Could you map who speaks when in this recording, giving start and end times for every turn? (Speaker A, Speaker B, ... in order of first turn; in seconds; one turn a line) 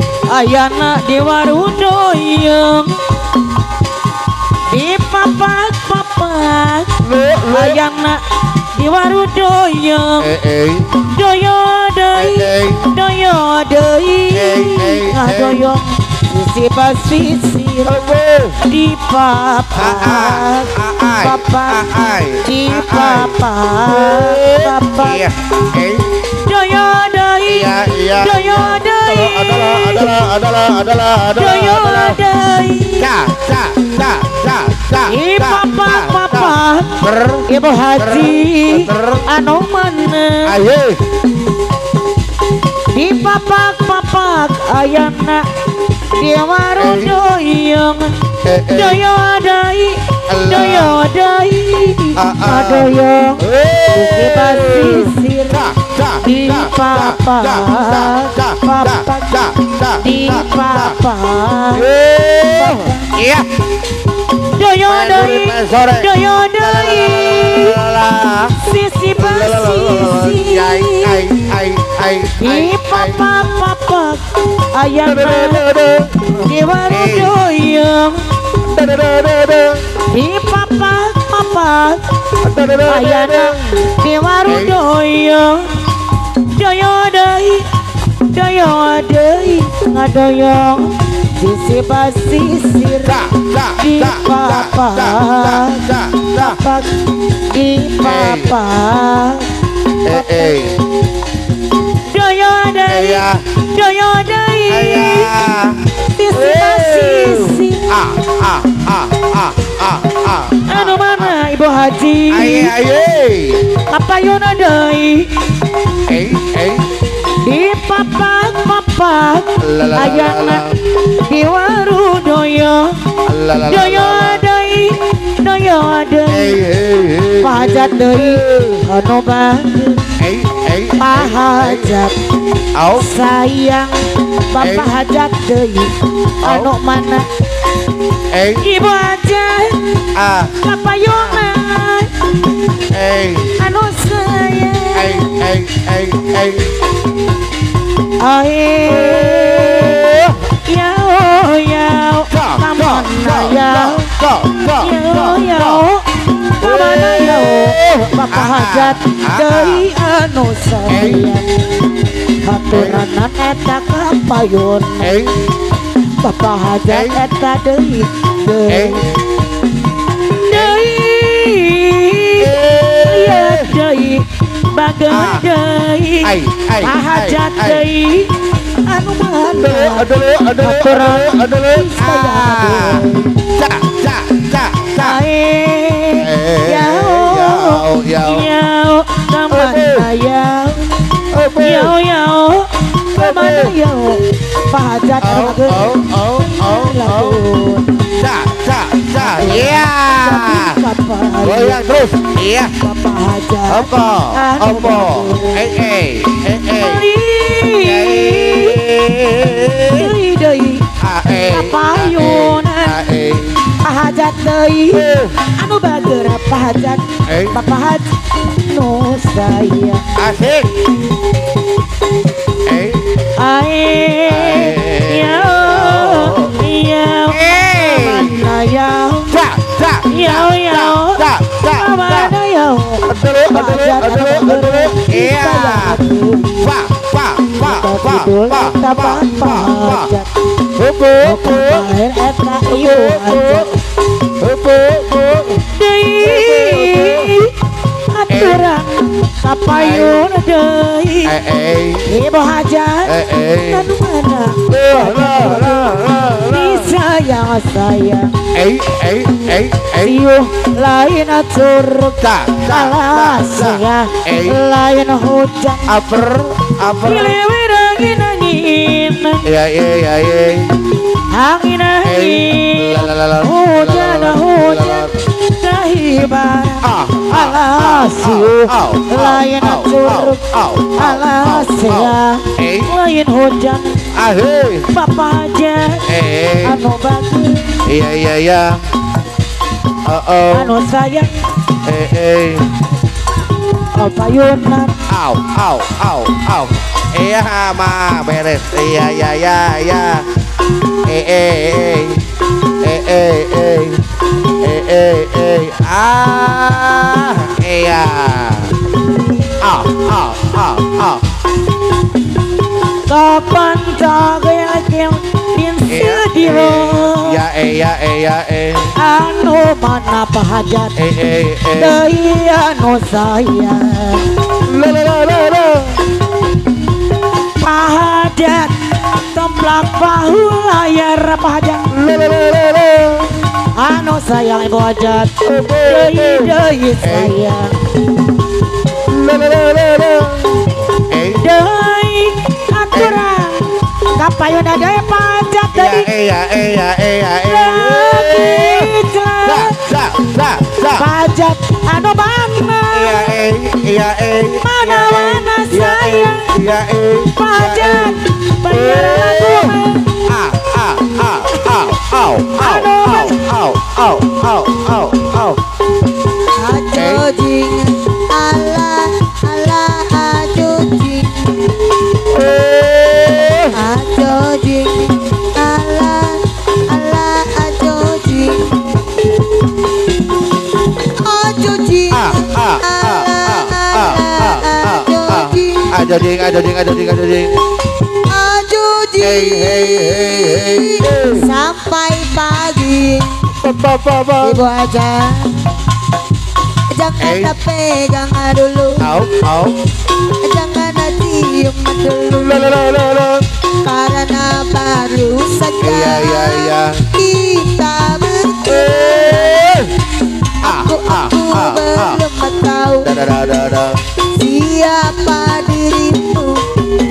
Speaker A: 0.3-3.0
Speaker A: 4.7-6.9
Speaker B: 7.0-7.8
Speaker A: 7.5-8.2
Speaker A: 8.7-10.3
Speaker B: 10.2-11.0
Speaker A: 11.1-17.9
Speaker B: 12.1-12.9
Speaker B: 14.3-15.6
Speaker B: 17.9-18.6
Speaker A: 18.7-21.8
Speaker B: 19.7-26.2
Speaker A: 22.4-25.2
Speaker A: 26.4-30.2
Speaker B: 27.4-32.2
Speaker A: 31.4-33.1
Speaker B: 33.0-39.2
Speaker A: 35.1-36.9
Speaker A: 37.5-40.5
Speaker B: 40.4-41.0
Speaker A: 42.9-45.4
Speaker A: 46.1-48.1
Speaker B: 46.8-47.2
Speaker B: 48.4-49.1
Speaker A: 48.7-55.6
Speaker B: 50.3-51.0
Speaker B: 52.2-61.0
Speaker A: 56.2-59.3
Speaker A: 60.0-61.9
Speaker B: 61.7-63.5
Speaker A: 62.5-63.1
Speaker A: 64.5-67.8
Speaker B: 64.8-68.6
Speaker A: 68.6-71.2
Speaker B: 69.2-73.3
Speaker A: 72.4-75.7
Speaker B: 75.0-77.4
Speaker A: 76.4-78.2
Speaker B: 78.6-79.9
Speaker A: 80.1-82.0
Speaker B: 82.4-83.6
Speaker A: 82.9-85.7
Speaker B: 84.4-84.8
Speaker A: 86.5-87.7
Speaker A: 88.2-95.8
Speaker B: 93.0-96.6
Speaker A: 96.3-96.9
Speaker A: 97.5-99.5
Speaker B: 98.0-98.5
Speaker B: 100.0-100.8
Speaker A: 100.1-100.5
Speaker A: 102.1-105.3
Speaker B: 102.9-103.5
Speaker B: 104.7-111.4
Speaker A: 106.1-107.9
Speaker A: 110.7-112.7
Speaker B: 112.3-113.7
Speaker A: 113.9-115.3
Speaker B: 116.1-117.0
Speaker A: 117.4-123.0
Speaker B: 119.6-120.8
Speaker B: 123.2-124.5
Speaker A: 123.6-126.6
Speaker B: 126.3-128.8
Speaker A: 127.4-130.1
Speaker B: 130.2-131.9
Speaker A: 131.0-132.1
Speaker B: 132.7-133.1
Speaker A: 133.0-137.3
Speaker B: 134.6-135.0
Speaker B: 136.4-136.8
Speaker B: 138.3-138.7
Speaker A: 138.6-140.0
Speaker B: 140.1-140.6
Speaker A: 140.6-142.1
Speaker B: 141.1-141.5
Speaker B: 142.9-143.5
Speaker A: 143.6-145.2
Speaker B: 144.9-146.8
Speaker A: 148.2-154.1
Speaker B: 148.9-150.5
Speaker B: 152.3-155.9
Speaker A: 154.8-161.8
Speaker B: 156.6-159.9
Speaker B: 160.9-161.3
Speaker A: 162.4-165.2
Speaker B: 162.7-163.1
Speaker B: 165.0-165.5
Speaker A: 166.2-169.0
Speaker B: 166.9-167.2
Speaker B: 168.7-169.0
Speaker A: 170.4-172.5
Speaker B: 170.5-170.9
Speaker B: 172.4-173.7
Speaker A: 173.0-183.3
Speaker B: 175.1-175.5
Speaker B: 176.2-177.9
Speaker B: 179.6-185.2
Speaker A: 185.0-190.9
Speaker B: 186.2-188.5
Speaker B: 189.5-190.1
Speaker B: 191.3-192.0
Speaker A: 191.6-195.9
Speaker B: 193.2-193.8
Speaker B: 195.2-197.4
Speaker A: 196.6-198.1
Speaker B: 198.1-200.8
Speaker A: 199.2-201.8
Speaker B: 201.4-202.8
Speaker A: 202.8-205.6
Speaker B: 203.7-207.1
Speaker A: 206.8-208.8
Speaker B: 207.7-210.1
Speaker A: 209.9-213.0
Speaker B: 211.0-213.7
Speaker A: 213.8-220.1
Speaker B: 214.9-215.4
Speaker B: 217.2-217.6
Speaker B: 220.2-220.8
Speaker B: 222.6-223.1
Speaker A: 223.4-229.4
Speaker B: 224.3-226.6
Speaker B: 227.3-228.4
Speaker B: 229.3-232.3
Speaker A: 230.1-236.7
Speaker B: 233.1-236.0
Speaker B: 236.6-240.1
Speaker A: 237.6-240.3
Speaker B: 240.7-241.9
Speaker A: 241.2-243.7
Speaker B: 242.7-243.7
Speaker B: 244.3-245.6
Speaker A: 245.7-247.6
Speaker B: 246.2-247.4
Speaker A: 248.1-251.3
Speaker B: 248.3-248.7
Speaker B: 249.7-250.3
Speaker B: 251.2-252.1
Speaker A: 252.1-258.4
Speaker B: 253.0-253.9
Speaker B: 254.7-256.9
Speaker B: 258.5-260.2
Speaker A: 260.0-266.0
Speaker B: 262.2-264.6
Speaker B: 265.9-267.4
Speaker A: 267.0-269.4
Speaker B: 269.4-270.7
Speaker A: 271.3-280.4
Speaker B: 272.0-275.1
Speaker B: 276.8-282.9
Speaker A: 280.9-284.1
Speaker B: 284.1-284.9
Speaker A: 284.9-286.0
Speaker B: 286.1-286.8
Speaker A: 286.6-287.8
Speaker B: 287.8-288.8
Speaker B: 290.0-290.8
Speaker A: 290.5-291.4
Speaker B: 291.8-292.7
Speaker A: 293.9-295.0
Speaker B: 295.1-300.3
Speaker B: 301.0-302.2
Speaker B: 302.8-304.0
Speaker B: 304.6-308.8
Speaker B: 309.6-311.2
Speaker A: 313.1-317.4
Speaker B: 315.9-318.9
Speaker A: 319.0-320.9
Speaker B: 321.0-322.0
Speaker A: 321.7-324.3
Speaker B: 324.6-326.0
Speaker A: 327.6-331.9
Speaker B: 331.9-333.4
Speaker A: 333.8-337.8
Speaker B: 335.4-337.3
Speaker B: 339.0-341.5
Speaker A: 341.4-346.1
Speaker B: 342.9-343.2
Speaker B: 345.7-351.1
Speaker A: 347.4-349.8
Speaker A: 350.9-353.4
Speaker B: 352.9-365.6
Speaker A: 354.6-356.6
Speaker A: 357.4-360.1
Speaker A: 362.6-363.4
Speaker C: 366.5-371.8
Speaker B: 366.9-367.2
Speaker B: 372.3-373.8
Speaker C: 373.7-378.8
Speaker C: 381.2-385.9
Speaker B: 382.1-387.6
Speaker C: 388.3-393.5
Speaker B: 389.2-391.5
Speaker B: 393.6-394.6
Speaker C: 394.4-395.6
Speaker C: 396.9-399.1
Speaker B: 397.2-397.5
Speaker B: 399.0-399.8
Speaker C: 400.4-402.8
Speaker B: 402.4-403.5
Speaker C: 403.8-409.6
Speaker B: 405.8-407.1
Speaker B: 408.7-409.9
Speaker C: 410.6-413.1
Speaker B: 410.6-412.2
Speaker B: 413.0-414.0
Speaker C: 414.3-416.7